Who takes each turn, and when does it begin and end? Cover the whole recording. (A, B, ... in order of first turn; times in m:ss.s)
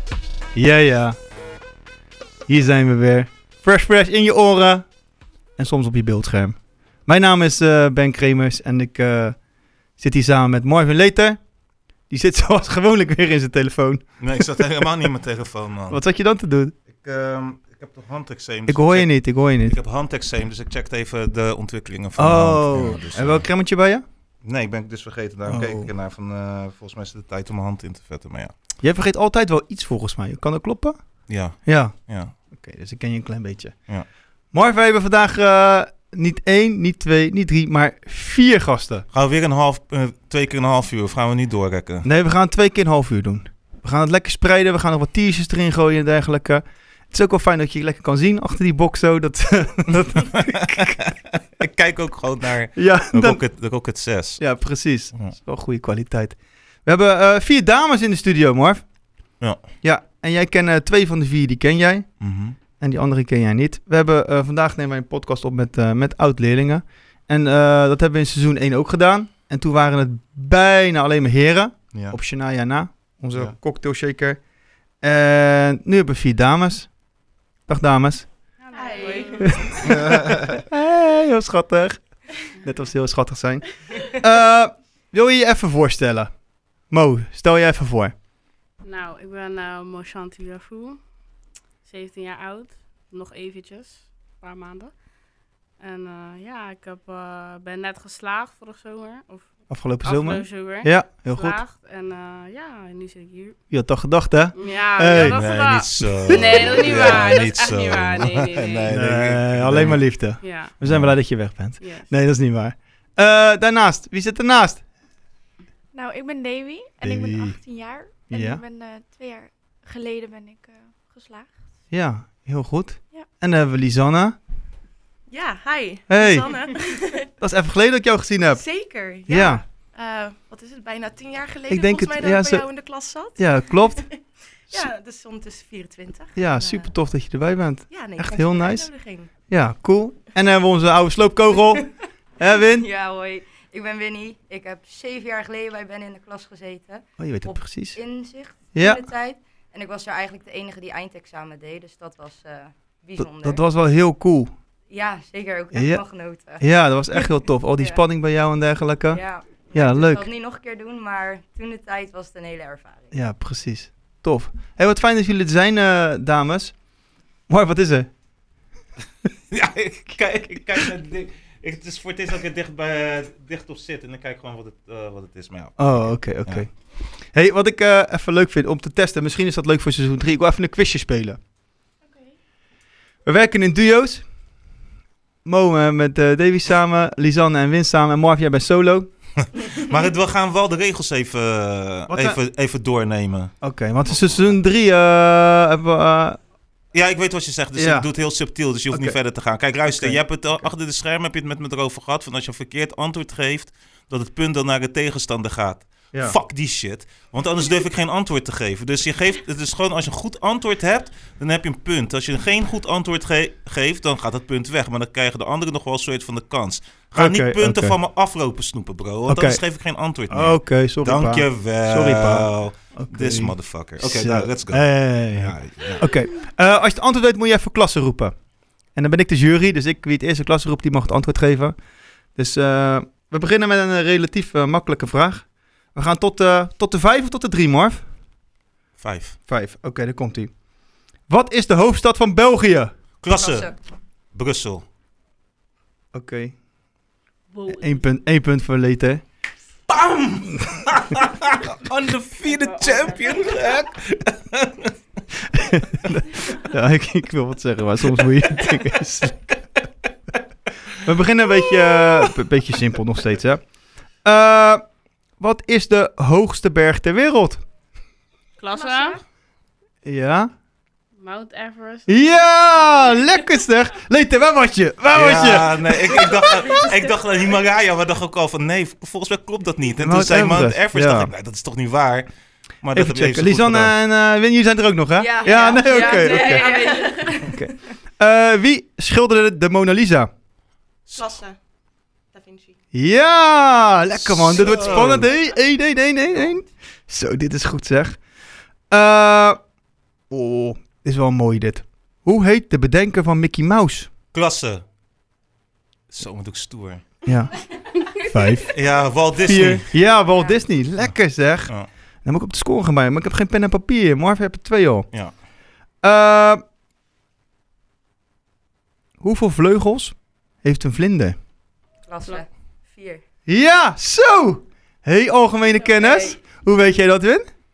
0:00.5-0:01.2 A
0:02.5-0:04.9 A
0:05.6-0:09.4 A
0:10.0-0:11.4 A
0:12.1-0:14.8 A
0:14.2-0:16.0 B
0:15.9-0:16.7 A
0:16.9-0:23.4 B
0:18.7-0:19.8 A
0:22.2-0:24.0 A
0:24.4-0:28.5 B
0:25.4-0:25.9 A
0:28.8-0:31.0 A
0:31.3-0:32.3 B
0:31.5-0:33.8 A
0:34.5-0:39.0 A
0:39.1-0:42.1 B
0:42.0-0:51.0 A
0:50.1-0:54.4 B
0:52.7-0:53.4 A
0:54.4-0:58.8 A
0:59.8-1:02.1 A
1:02.2-1:02.6 B
1:02.8-1:14.4 A
1:15.0-1:16.9 A
1:17.7-1:18.3 A
1:18.6-1:19.8 C
1:18.7-1:19.8 D
1:19.0-1:19.3 E
1:19.4-1:26.3 A
1:19.8-1:20.6 B
1:26.9-1:28.1 A
1:28.8-1:31.0 C
1:31.8-1:35.0 C
1:35.8-1:39.5 C
1:39.7-1:41.6 A
1:40.0-1:43.6 C
1:43.7-1:45.4 A
1:44.6-1:48.9 C
1:45.1-1:50.0 B
1:46.4-1:47.2 A
1:48.9-1:54.8 A
1:50.4-1:50.7 C
1:50.8-1:51.1 B
1:51.8-1:52.1 C
1:55.9-2:01.5 E
1:57.0-1:57.6 A
1:58.3-1:58.6 A
2:01.9-2:04.4 A
2:05.3-2:07.3 D
2:06.1-2:06.5 A
2:07.4-2:08.6 A
2:08.5-2:16.9 D
2:09.3-2:09.6 A
2:11.7-2:12.6 A
2:13.4-2:14.0 A
2:16.4-2:18.9 A
2:17.9-2:19.3 D
2:19.5-2:22.9 A
2:22.7-2:33.6 F
2:27.2-2:28.0 A
2:28.7-2:29.0 A
2:33.2-2:34.5 A
2:34.9-2:38.0 F
2:35.7-2:36.0 A
2:36.6-2:39.2 A
2:39.1-2:43.1 F
2:39.7-2:40.2 A
2:43.1-2:46.8 A
2:47.5-2:48.1 A
2:49.5-2:56.6 B
2:50.5-2:50.9 A
2:55.8-2:56.7 A
2:57.3-3:01.4 A
3:02.0-3:02.3 E
3:03.2-3:04.2 A
3:05.4-3:09.1 A
3:09.7-3:13.5 B
3:12.1-3:12.4 A
3:13.6-3:16.4 A
3:14.1-3:14.5 B
3:16.9-3:46.1 B
3:17.7-3:18.1 A
3:18.9-3:19.2 A
3:19.8-3:20.7 A
3:37.2-3:38.0 A
3:39.3-3:39.6 A
3:40.3-3:48.3 A
3:48.9-3:51.7 A
3:52.4-3:58.0 A
3:59.0-3:59.4 B
3:59.5-4:00.5 A
4:01.3-4:02.9 A
4:03.2-4:03.7 B
4:03.3-4:03.8 F
4:04.3-4:04.8 B
4:06.1-4:06.6 A
4:07.5-4:08.0 C
4:07.7-4:09.2 A
4:09.9-4:14.9 B
4:12.5-4:13.6 C
4:15.5-4:19.6 A
4:21.0-4:23.6 A
4:24.2-4:24.8 A
4:25.4-4:27.6 A
4:28.6-4:29.2 C
4:30.0-4:30.5 A
4:31.2-4:32.1 C
4:32.1-4:36.4 A
4:35.1-4:42.3 B
4:40.0-4:41.3 A
4:42.8-4:43.9 B
4:42.9-4:46.6 A
4:45.2-4:47.6 F
4:45.4-4:47.4 D
4:47.4-4:50.3 A
4:51.1-4:51.6 D
4:52.3-4:52.8 D
4:52.9-4:58.2 A
4:54.2-4:55.3 B
4:58.9-4:59.6 A
5:00.3-5:04.1 A
5:04.3-5:04.8 B
5:06.1-5:07.1 B
5:07.2-5:08.8 A
5:08.7-5:09.9 B
5:09.4-5:15.1 A
5:10.3-5:10.6 F
5:16.0-5:16.6 A
5:19.2-5:21.4 A
5:22.0-5:23.2 F
5:23.5-5:27.5 A
5:25.9-5:26.4 F